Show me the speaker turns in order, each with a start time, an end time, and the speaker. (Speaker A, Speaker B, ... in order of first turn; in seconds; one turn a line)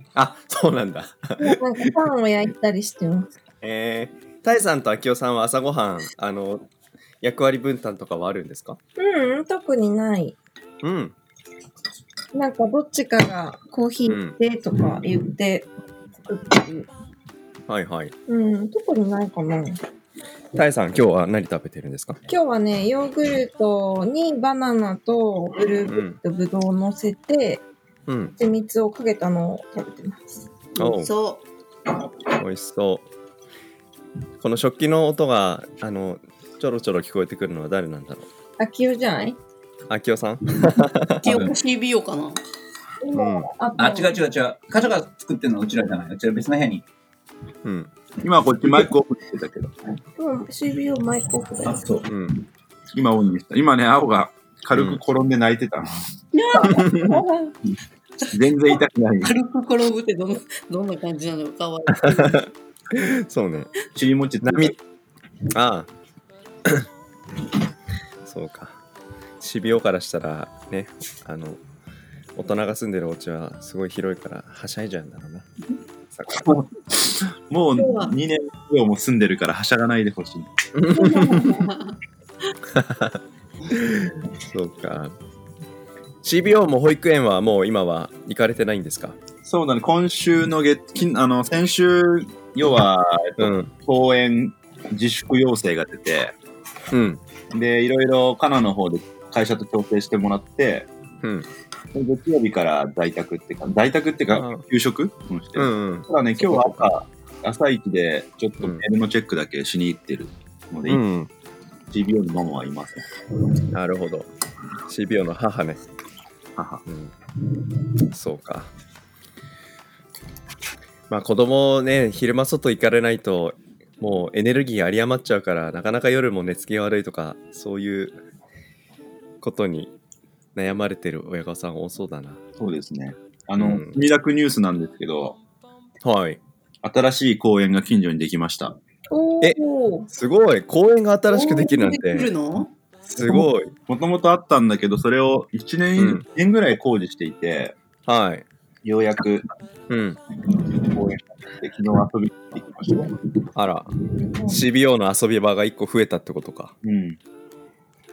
Speaker A: 0.1-1.6
Speaker B: 1.4-3.3
Speaker A: 3.6-6.7
Speaker A: 7.2-8.8
Speaker B: 9.0-10.3
Speaker A: 10.8-11.1
Speaker B: 12.3-15.7
Speaker A: 14.1-14.4
Speaker B: 16.2-16.9
Speaker A: 17.7-18.1
Speaker B: 18.3-19.8
Speaker A: 20.5-22.2
Speaker B: 22.3-27.6
Speaker A: 25.9-26.2
Speaker A: 28.1-28.3
Speaker B: 28.4-30.3
Speaker C: 30.8-31.4
Speaker A: 30.8-31.1
Speaker A: 32.4-33.1
Speaker A: 34.4-38.3
Speaker B: 38.6-39.4
Speaker A: 39.9-41.2
Speaker C: 41.2-42.4
Speaker D: 41.2-41.5
Speaker B: 43.0-44.1
Speaker A: 43.1-43.5
Speaker D: 43.8-46.8
Speaker A: 47.6-47.9
Speaker E: 48.2-49.7
Speaker B: 50.2-51.8
Speaker D: 51.7-52.1
Speaker A: 52.0-52.3
Speaker E: 52.9-56.0
Speaker A: 54.7-55.0
Speaker C: 56.3-56.8
Speaker E: 56.6-57.1
Speaker B: 56.8-57.5
Speaker E: 58.3-59.3
Speaker C: 59.2-62.5
Speaker A: 61.9-63.7
Speaker E: 63.9-64.8
Speaker A: 64.4-64.7
Speaker A: 65.5-65.9
Speaker A: 68.2-68.8
Speaker A: 69.4-71.6
Speaker A: 72.3-75.5
Speaker A: 76.1-76.5
Speaker E: 76.3-80.5
Speaker C: 77.7-78.1
Speaker A: 80.7-81.7
Speaker C: 80.9-82.0
Speaker A: 82.7-85.2
Speaker A: 86.2-89.2
Speaker E: 89.4-96.3
Speaker A: 93.4-93.7
Speaker A: 96.9-97.2
Speaker E: 97.5-100.9
Speaker A: 101.2-101.5
Speaker E: 101.9-111.0
Speaker A: 104.3-104.6
Speaker A: 105.5-106.9
Speaker A: 110.9-111.3
Speaker E: 111.9-113.0
Speaker A: 113.7-114.3
Speaker A: 114.9-115.8
Speaker E: 116.6-116.8
Speaker A: 116.8-117.1
Speaker A: 118.1-118.7
Speaker A: 121.1-128.2
Speaker A: 129.4-129.9
Speaker A: 130.5-132.4
Speaker E: 132.6-135.4
Speaker A: 133.6-134.0
Speaker A: 136.0-136.4
Speaker E: 136.8-138.8
Speaker B: 139.1-140.1
Speaker A: 140.1-142.3
Speaker C: 141.3-142.7
Speaker A: 143.0-143.7
Speaker E: 143.9-147.8
Speaker A: 146.0-146.2
Speaker A: 148.1-148.4
Speaker E: 148.8-149.4
Speaker A: 149.9-150.2
Speaker E: 150.7-153.1
Speaker A: 153.5-153.9
Speaker A: 154.4-156.7
Speaker E: 156.8-157.2